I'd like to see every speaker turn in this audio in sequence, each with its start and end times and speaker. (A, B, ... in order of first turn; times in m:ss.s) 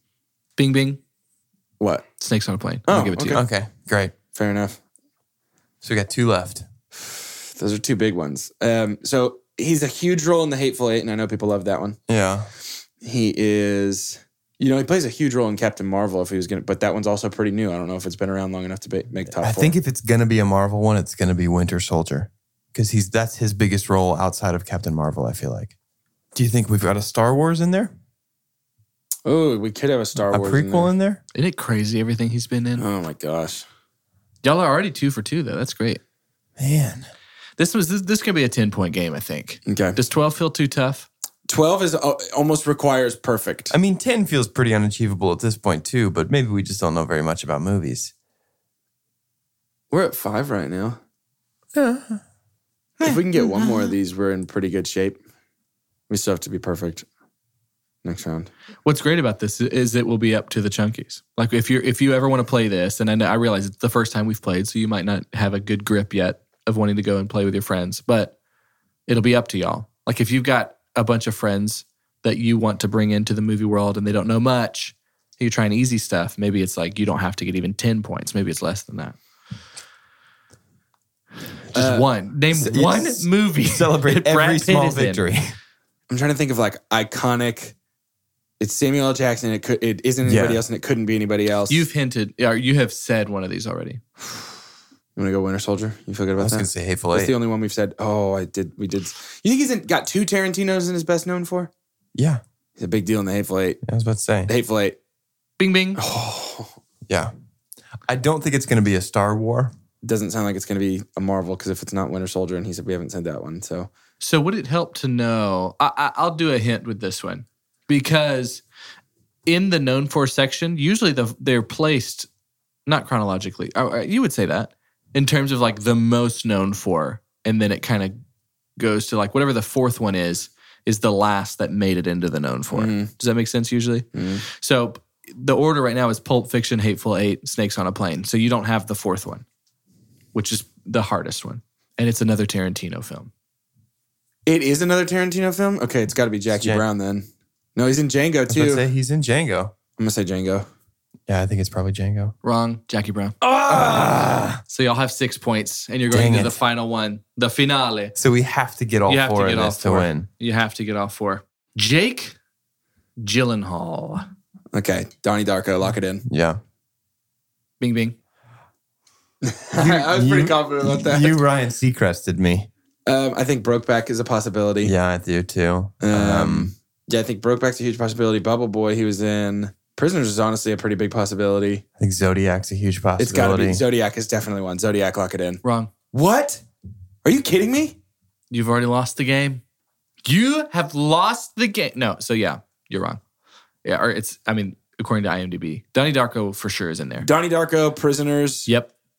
0:00.6-0:01.0 A
0:01.8-0:02.1 B
0:02.2-0:03.4 A
0:02.9-0:03.4 B
0:03.3-0:04.1 C
0:04.3-0:04.8 B
0:05.8-0:06.6 C
0:07.0-0:12.0 B
0:12.1-0:12.5 C
0:13.0-0:19.7 B
0:19.4-0:25.7 C
0:26.3-0:27.9 C
0:29.2-0:30.9 B
0:30.2-0:31.2 C
0:31.3-0:32.8 A
0:32.8-0:33.6 B
0:34.4-0:36.0 A
0:36.6-0:37.1 C
0:37.6-0:41.1 A
0:39.7-0:40.0 B
0:41.5-0:43.7 B
0:43.7-0:48.1 C
0:49.9-0:51.0 B
0:51.7-0:52.2 C
0:53.0-0:55.2 B
0:56.1-0:57.0 B
0:58.0-0:58.5 B
0:58.8-1:08.3 A
1:09.1-1:19.2 A
1:21.7-1:25.2 A
1:21.7-1:22.0 B
1:22.5-1:25.5 C
1:26.1-1:27.7 B
1:28.6-1:31.8 B
1:30.2-1:30.6 C
1:31.7-1:34.4 A
1:35.2-1:41.7 B
1:36.4-1:37.3 C
1:42.1-1:42.4 C
1:42.8-1:43.8 B
1:43.8-1:44.5 C
1:44.5-1:45.0 B
1:45.6-1:46.0 A
1:46.0-1:46.8 B
1:48.1-1:49.7 C
1:50.0-1:53.9 B
1:54.2-1:58.6 A
1:59.4-2:02.3 A
2:02.8-2:08.2 A
2:08.8-2:19.4 A
2:12.7-2:13.1 B
2:14.1-2:14.4 B
2:20.3-2:23.3 A
2:24.4-2:28.8 B
2:26.5-2:26.8 C
2:28.5-2:29.7 C
2:30.0-2:30.6 B
2:31.3-2:32.3 C
2:32.4-2:33.4 A
2:33.5-2:34.6 C
2:33.6-2:34.1 B
2:34.7-2:38.1 A
2:36.1-2:36.6 C
2:38.2-2:40.3 C
2:39.1-2:42.4 A
2:43.2-2:44.2 A
2:44.7-2:46.2 B
2:46.2-2:46.6 C
2:47.8-2:48.1 A
2:49.4-2:51.4 B
2:49.7-2:52.7 C
2:53.0-2:54.9 B
2:54.8-2:56.7 C
2:56.0-3:01.8 B
3:02.0-3:03.8 C
3:03.2-3:06.6 B
3:05.6-3:05.9 A
3:07.2-3:08.0 B
3:08.5-3:09.6 A
3:10.2-3:13.2 A
3:13.8-3:17.3 A
3:17.2-3:18.7 B
3:18.7-3:18.9 A